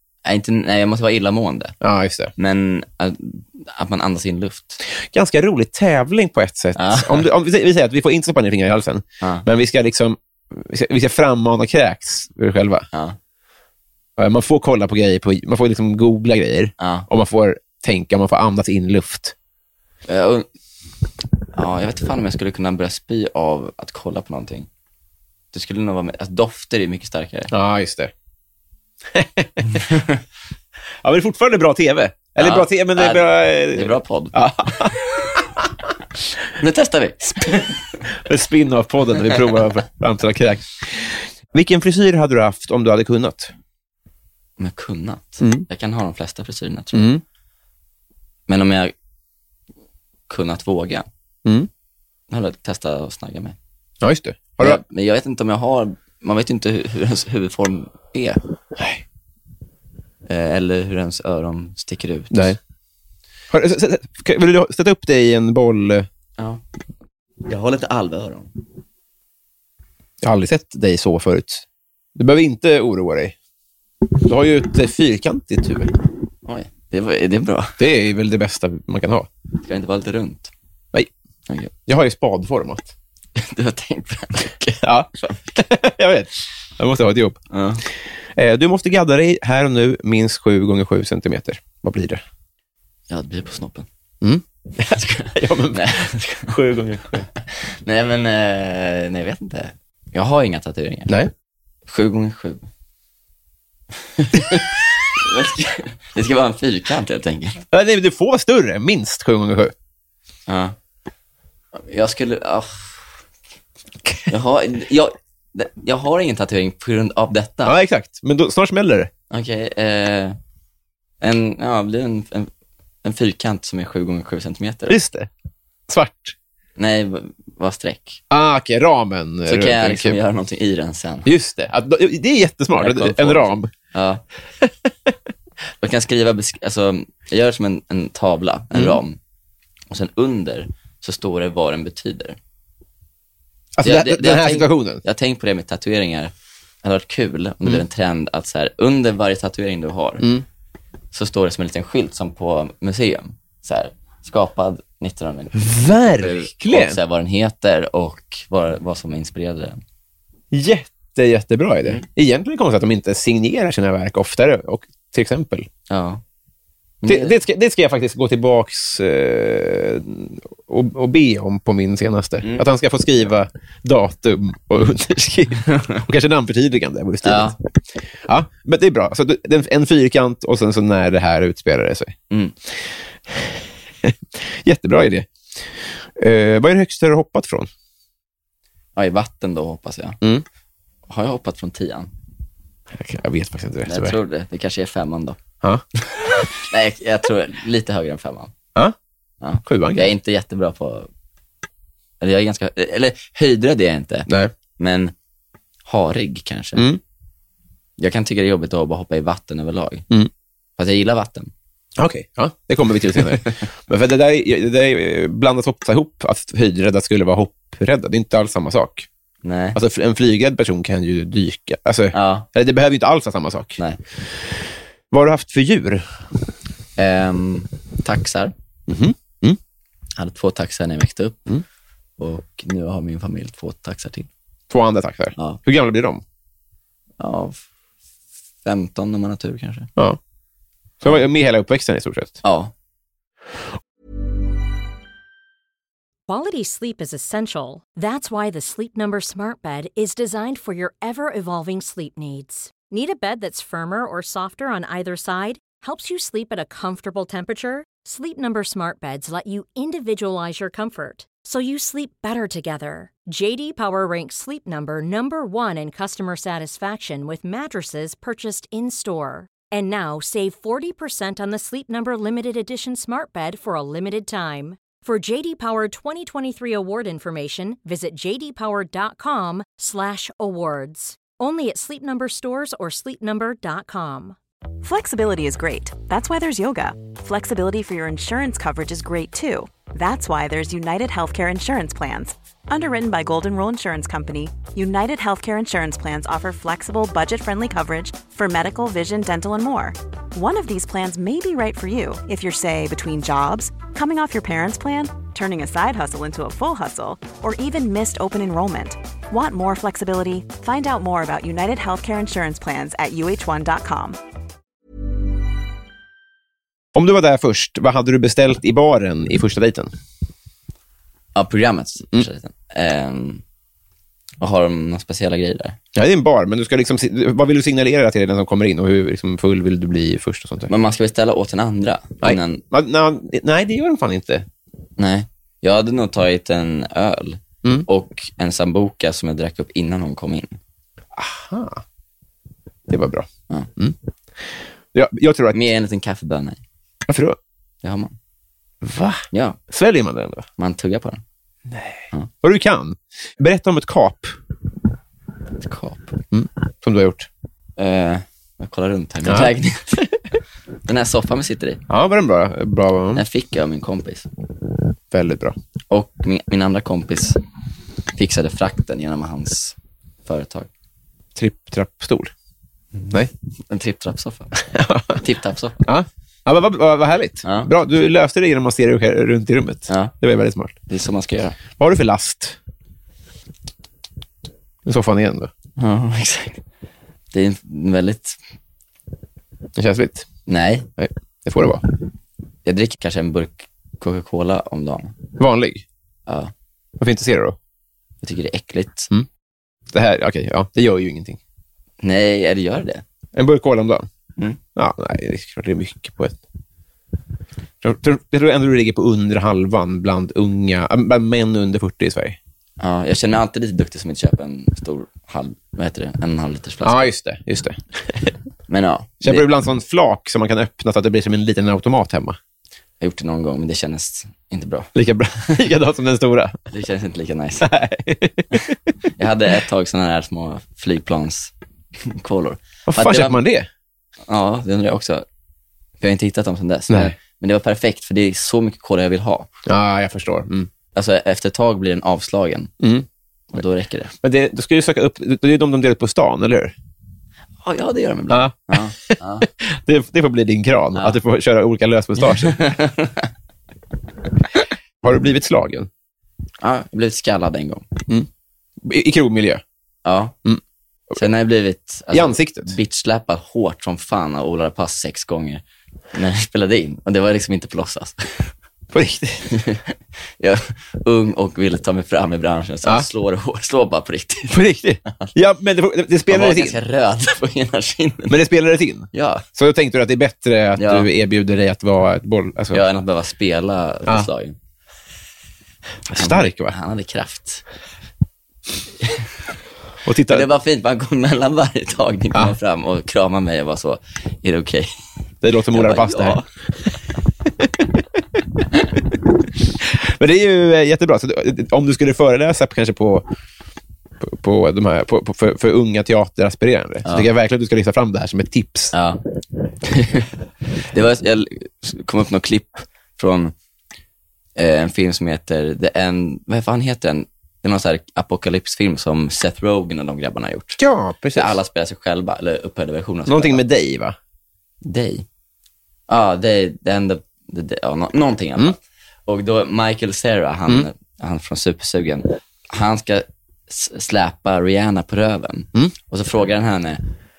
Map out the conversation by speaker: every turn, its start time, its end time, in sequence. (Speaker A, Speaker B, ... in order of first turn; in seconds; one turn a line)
Speaker A: 0.2-1.8
Speaker B: 1.8-2.3
Speaker A: 2.4-4.8
Speaker B: 4.9-12.9
Speaker A: 6.8-7.2
Speaker B: 14.2-19.3
Speaker A: 16.8-17.1
Speaker A: 20.1-20.5
Speaker A: 21.5-24.7
Speaker A: 25.5-27.5
Speaker B: 27.5-28.1
Speaker B: 29.1-29.8
Speaker A: 29.7-30.2
Speaker B: 31.0-35.7
Speaker A: 32.4-35.4
Speaker A: 36.4-38.1
Speaker B: 38.1-43.5
Speaker A: 39.2-39.6
Speaker A: 44.6-47.1
Speaker B: 45.4-45.6
Speaker B: 46.9-47.2
Speaker A: 48.5-48.9
Speaker A: 50.3-51.1
Speaker A: 52.3-53.5
Speaker B: 54.0-54.8
Speaker A: 54.6-58.4
Speaker B: 58.8-59.0
Speaker A: 60.3-62.6
Speaker B: 62.3-62.6
Speaker B: 63.5-66.1
Speaker A: 67.4-68.5
Speaker B: 70.2-73.3
Speaker B: 74.2-75.9
Speaker A: 76.5-77.8
Speaker B: 77.8-79.3
Speaker A: 79.6-80.5
Speaker B: 81.9-82.9
Speaker A: 83.3-85.4
Speaker B: 84.8-87.4
Speaker A: 87.5-87.8
Speaker B: 88.3-92.2
Speaker A: 93.1-93.9
Speaker B: 94.2-97.3
Speaker A: 94.8-101.2
Speaker A: 101.9-102.7
Speaker A: 104.0-107.6
Speaker B: 107.7-109.7
Speaker A: 110.5-110.7
Speaker A: 111.7-113.2
Speaker A: 114.2-117.8
Speaker B: 117.6-119.1
Speaker A: 119.3-120.4
Speaker A: 121.2-122.5
Speaker A: 123.0-125.0
Speaker B: 124.9-125.3
Speaker B: 125.9-126.3
Speaker A: 126.8-128.2
Speaker B: 128.3-130.2
Speaker A: 129.5-131.3
Speaker B: 131.2-133.7
Speaker A: 132.8-134.2
Speaker B: 134.6-134.9
Speaker A: 135.8-139.2
Speaker B: 138.7-139.0
Speaker A: 139.9-142.4
Speaker B: 143.8-145.0
Speaker A: 143.8-146.3
Speaker A: 146.8-150.3
Speaker A: 151.1-159.8
Speaker B: 155.5-157.0
Speaker B: 160.5-165.7
Speaker A: 165.9-166.2
Speaker A: 167.0-167.4
Speaker B: 167.0-177.6
Speaker A: 175.7-176.0
Speaker A: 177.2-177.6
Speaker B: 178.2-182.1
Speaker B: 183.3-185.3
Speaker B: 186.2-187.7
Speaker A: 188.9-190.2
Speaker A: 191.1-192.1
Speaker B: 192.9-194.2
Speaker A: 193.9-195.4
Speaker A: 196.1-198.5
Speaker A: 199.4-201.1
Speaker B: 199.6-200.1
Speaker A: 202.2-205.1
Speaker B: 204.3-204.5
Speaker A: 205.8-206.9
Speaker B: 206.7-207.0
Speaker A: 208.0-210.1
Speaker A: 210.8-211.5
Speaker B: 212.0-219.1
Speaker A: 219.4-219.8
Speaker B: 219.7-223.8
Speaker A: 222.1-222.5
Speaker B: 225.1-226.1
Speaker A: 227.0-228.5
Speaker B: 228.9-229.6
Speaker A: 230.2-231.6
Speaker A: 232.2-234.3
Speaker B: 234.7-236.2
Speaker A: 237.2-237.6
Speaker A: 238.6-239.9
Speaker B: 241.0-242.4
Speaker A: 242.4-242.7
Speaker C: 246.3-284.4
Speaker D: 284.8-314.2
Speaker B: 316.9-319.9
Speaker A: 321.3-323.4
Speaker A: 324.4-325.8
Speaker B: 325.9-330.7
Speaker A: 330.7-332.6
Speaker B: 332.2-334.4
Speaker A: 335.0-340.6
Speaker B: 341.1-341.8
Speaker B: 342.9-343.9
Speaker B: 344.9-345.6
Speaker A: 345.5-346.6
Speaker B: 347.1-347.4
Speaker A: 347.8-348.1
Speaker B: 348.8-350.4
Speaker A: 349.3-349.6
Speaker A: 350.6-351.2
Speaker B: 351.7-354.4
Speaker A: 355.6-356.2
Speaker B: 356.3-357.3
Speaker A: 357.8-360.1
Speaker B: 359.2-359.5
Speaker A: 360.9-361.8
Speaker B: 361.9-363.2
Speaker A: 363.1-364.3
Speaker B: 365.1-365.6
Speaker A: 365.9-367.4
Speaker A: 368.1-370.7
Speaker B: 371.3-372.3
Speaker A: 372.9-374.6
Speaker B: 374.7-375.2
Speaker A: 375.1-375.8
Speaker B: 375.8-380.8
Speaker A: 377.4-377.7
Speaker A: 380.9-381.6
Speaker B: 381.8-382.6
Speaker B: 384.9-385.5
Speaker A: 385.8-386.6
Speaker A: 387.3-388.4
Speaker B: 389.8-390.3
Speaker A: 390.5-390.9
Speaker B: 391.0-391.8
Speaker A: 392.6-395.1
Speaker B: 395.4-395.8
Speaker A: 396.3-396.5
Speaker B: 397.0-397.6
Speaker A: 398.2-399.1
Speaker B: 399.9-401.4
Speaker A: 402.0-403.0
Speaker B: 403.4-404.1
Speaker B: 404.8-406.4
Speaker B: 407.8-412.4
Speaker A: 412.8-417.1
Speaker B: 416.8-418.3
Speaker A: 418.7-419.4
Speaker B: 419.2-422.4
Speaker A: 423.0-424.9
Speaker B: 424.9-426.6
Speaker A: 426.7-427.7
Speaker B: 427.6-428.8
Speaker A: 429.2-431.5
Speaker A: 432.0-433.4
Speaker B: 432.9-433.7
Speaker A: 434.3-435.2
Speaker A: 436.0-439.5
Speaker B: 439.6-440.7
Speaker A: 440.9-442.7
Speaker B: 442.8-443.1
Speaker A: 443.5-444.1
Speaker B: 444.2-446.7
Speaker A: 447.6-449.5
Speaker B: 448.3-452.6
Speaker A: 452.3-453.3
Speaker B: 455.0-455.9
Speaker A: 456.6-457.9
Speaker B: 458.8-459.6
Speaker A: 460.0-460.4
Speaker A: 461.1-468.5
Speaker B: 462.1-462.8
Speaker B: 468.9-469.5
Speaker A: 469.5-475.3
Speaker B: 474.5-476.8
Speaker A: 476.3-478.4
Speaker B: 478.3-482.8
Speaker A: 479.1-479.4
Speaker A: 480.8-481.1
Speaker A: 482.7-484.6
Speaker B: 486.1-486.7
Speaker A: 486.1-487.6
Speaker A: 489.0-489.3
Speaker B: 490.0-490.5
Speaker A: 490.3-494.9
Speaker B: 495.4-496.4
Speaker A: 495.7-496.4
Speaker B: 497.4-498.6
Speaker B: 499.8-503.2
Speaker B: 504.2-508.9
Speaker A: 508.9-509.2
Speaker A: 509.8-510.3
Speaker A: 510.8-513.5
Speaker A: 514.6-520.8
Speaker B: 520.8-521.6
Speaker A: 521.3-523.6
Speaker B: 523.3-524.1
Speaker A: 524.8-525.2
Speaker A: 526.1-537.0